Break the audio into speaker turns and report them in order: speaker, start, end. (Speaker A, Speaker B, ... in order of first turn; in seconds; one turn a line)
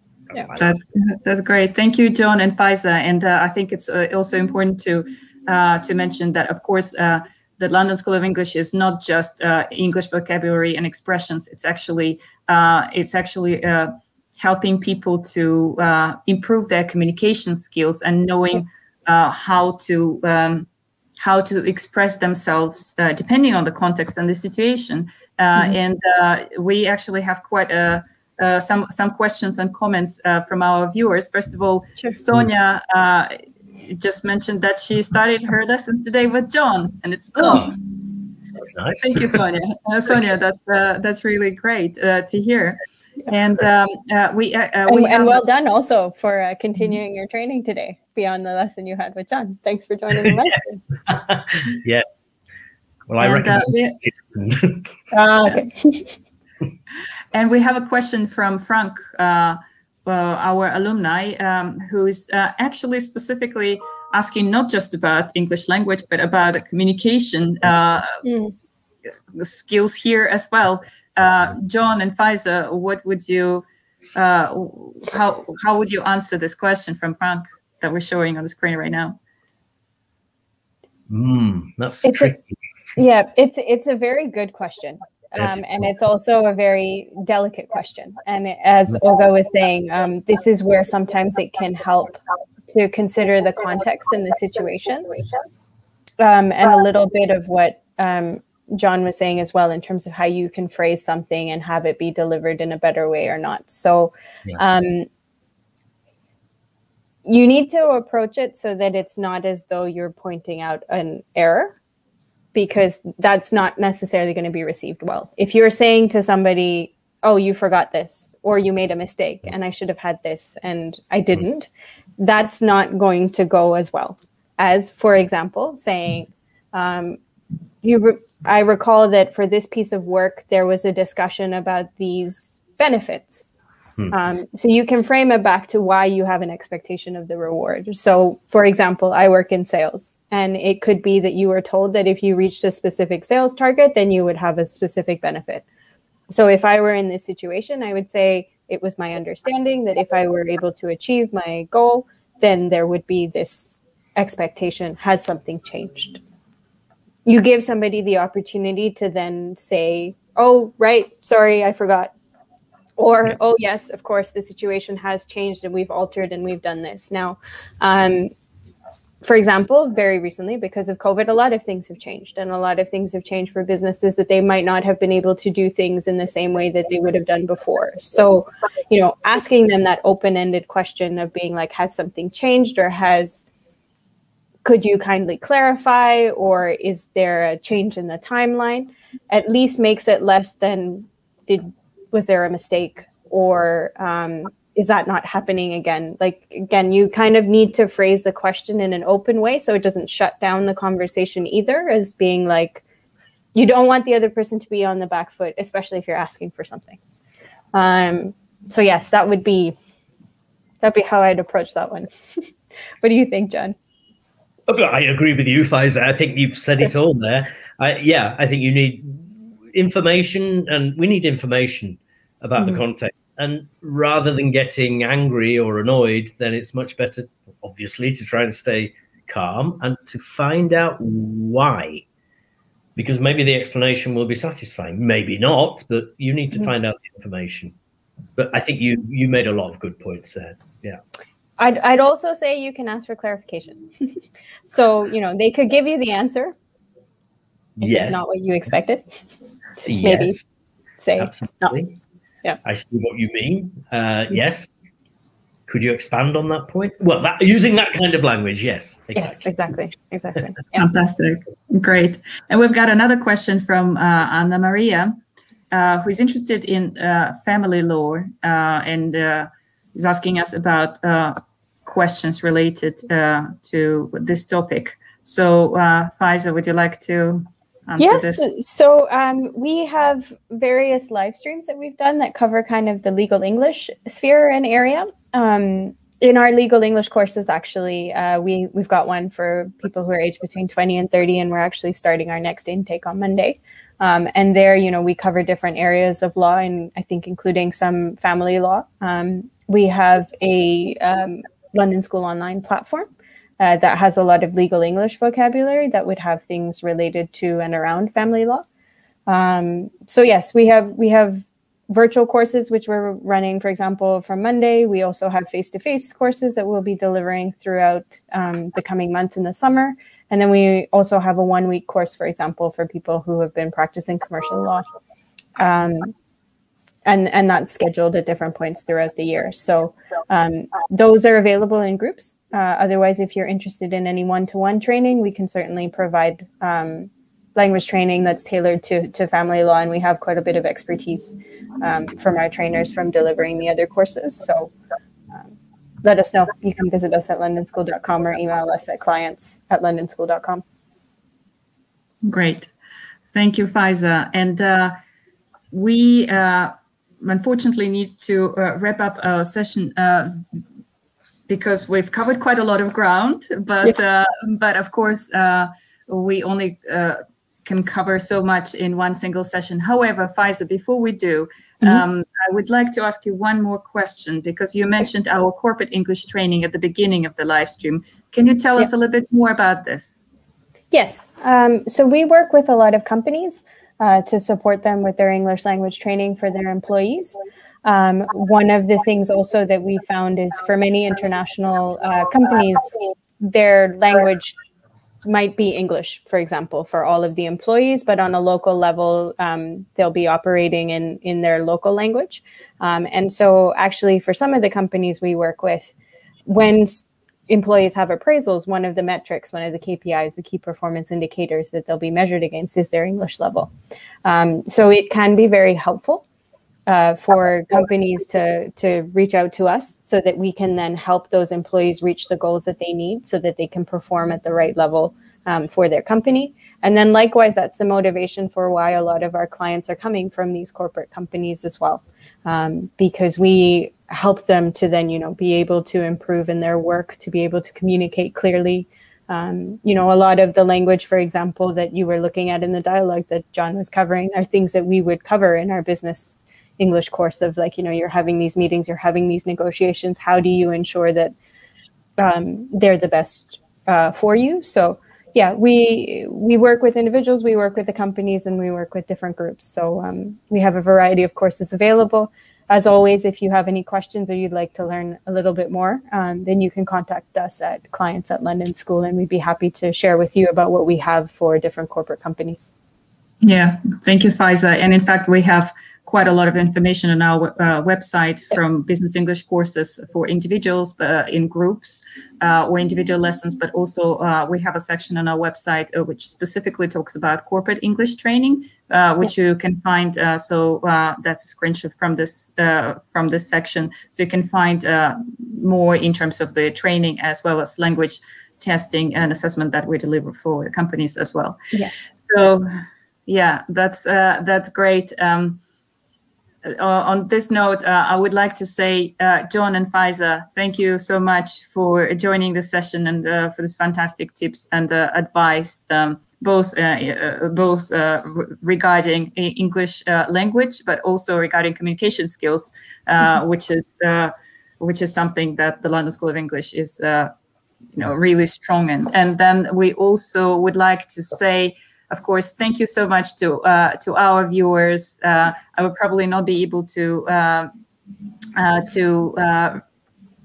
Speaker A: 0.3-0.9
Speaker B: 0.6-20.7
Speaker B: 21.2-37.8
Speaker A: 37.4-37.7
Speaker A: 38.6-39.4
Speaker B: 39.0-42.8
Speaker B: 43.3-45.4
Speaker C: 44.9-50.8
Speaker A: 51.1-52.0
Speaker A: 53.1-54.9
Speaker B: 53.2-54.0
Speaker C: 55.1-56.1
Speaker B: 57.3-68.2
Speaker C: 68.2-68.5
Speaker B: 69.3-79.2
Speaker A: 81.1-82.5
Speaker C: 82.0-82.4
Speaker C: 83.0-95.2
Speaker A: 85.4-85.9
Speaker C: 96.2-105.1
Speaker C: 107.2-111.7
Speaker C: 112.5-127.2
Speaker C: 127.8-133.5
Speaker C: 134.1-145.6
Speaker C: 146.3-156.2
Speaker C: 157.2-162.1
Speaker C: 163.0-168.3
Speaker C: 169.2-183.4
Speaker C: 184.6-202.8
Speaker C: 203.5-207.0
Speaker C: 207.7-209.7
Speaker C: 210.8-212.4
Speaker C: 213.0-213.8
Speaker A: 214.7-232.0
Speaker A: 232.9-237.8
Speaker A: 238.4-241.0
Speaker C: 241.6-244.1
Speaker C: 244.7-246.5
Speaker A: 247.8-248.2
Speaker C: 247.8-249.2
Speaker A: 249.8-250.4
Speaker C: 250.0-250.4
Speaker C: 251.0-251.7
Speaker A: 251.2-252.0
Speaker A: 252.6-254.7
Speaker A: 255.7-259.5
Speaker C: 259.1-260.9
Speaker B: 260.7-265.1
Speaker B: 265.7-278.5
Speaker C: 278.0-308.6
Speaker C: 309.3-324.9
Speaker C: 325.6-326.1
Speaker C: 327.0-344.7
Speaker C: 346.0-350.6
Speaker B: 352.3-352.7
Speaker B: 353.3-354.9
Speaker B: 355.7-360.4
Speaker B: 361.5-380.2
Speaker C: 380.9-394.5
Speaker C: 395.2-405.9
Speaker C: 406.5-413.7
Speaker C: 414.2-416.2
Speaker C: 416.9-451.3
Speaker C: 452.2-472.7
Speaker B: 473.4-501.6
Speaker B: 502.2-505.6
Speaker B: 506.6-527.3
Speaker B: 528.0-537.7
Speaker B: 538.5-539.8